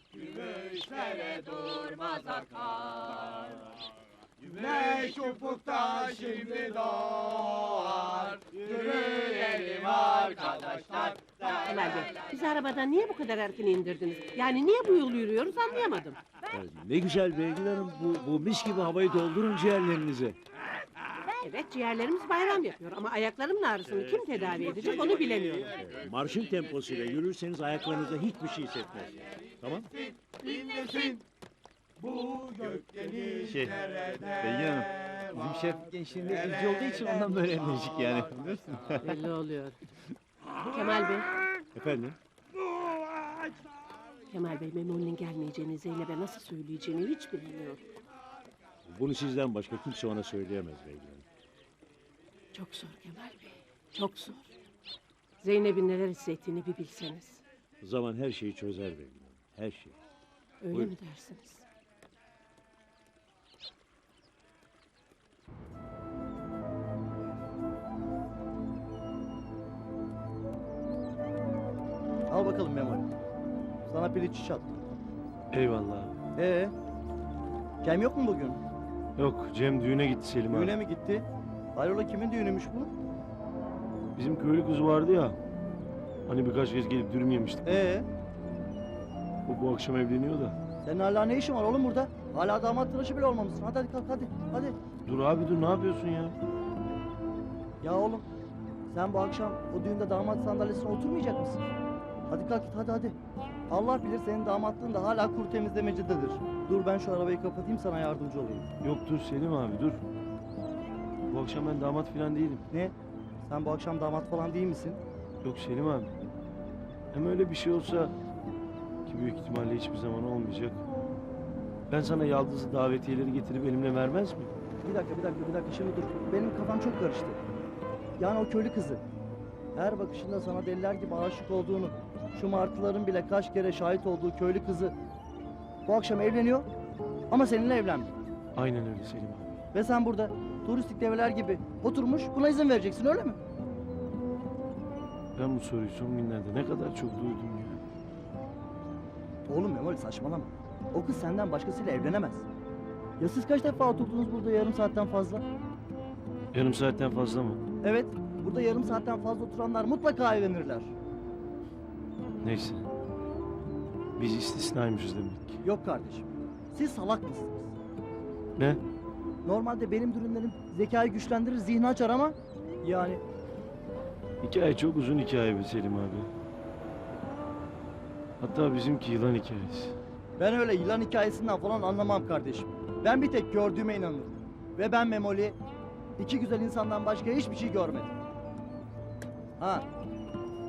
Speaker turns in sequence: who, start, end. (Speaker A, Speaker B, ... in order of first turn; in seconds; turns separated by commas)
Speaker A: 0.2-2.1, Speaker A: 4.6-8.2, Speaker A: 9.2-10.6, Speaker B: 11.4-16.2, Speaker C: 16.5-20.4, Speaker B: 21.3-25.8, Speaker C: 25.8-29.9, Speaker A: 32.5-33.3, Speaker C: 33.3-33.7, Speaker D: 33.5-38.9, Speaker C: 34.4-34.8, Speaker C: 36.7-38.4, Speaker B: 39.0-39.8, Speaker B: 40.6-41.3, Speaker C: 41.7-42.2, Speaker B: 44.3-47.8, Speaker C: 48.9-51.2, Speaker B: 52.5-54.5, Speaker B: 55.4-57.4, Speaker C: 57.8-59.9, Speaker B: 60.6-61.6, Speaker E: 72.3-73.1, Speaker E: 73.8-74.8, Speaker F: 75.5-76.1, Speaker E: 76.3-76.7, Speaker E: 77.8-78.6, Speaker F: 79.2-80.8, Speaker E: 80.5-82.9, Speaker F: 84.2-85.4, Speaker F: 86.3-87.7, Speaker E: 87.6-88.0, Speaker F: 89.5-90.6, Speaker E: 90.8-94.8, Speaker F: 95.0-96.4, Speaker E: 97.8-98.3, Speaker E: 98.9-101.6, Speaker E: 102.3-103.1, Speaker E: 103.7-108.7, Speaker F: 108.8-110.0, Speaker F: 111.3-112.6, Speaker E: 112.7-115.0, Speaker F: 115.4-116.1, Speaker F: 117.1-118.1, Speaker F: 119.0-120.8, Speaker F: 121.9-124.5, Speaker E: 124.8-127.4, Speaker E: 128.2-129.0, Speaker E: 129.7-134.9, Speaker E: 135.8-136.7, Speaker E: 137.3-138.1, Speaker F: 138.6-139.5, Speaker E: 139.7-143.4, Speaker F: 145.3-147.8, Speaker E: 149.5-152.4, Speaker E: 153.2-155.4, Speaker F: 156.5-157.6, Speaker E: 157.8-160.9, Speaker F: 162.4-162.8, Speaker F: 164.2-165.6, Speaker E: 165.6-167.7, Speaker E: 169.4-173.2, Speaker F: 174.4-176.3, Speaker F: 178.4-180.0, Speaker E: 180.4-185.6, Speaker E: 186.2-188.1, Speaker E: 189.6-189.9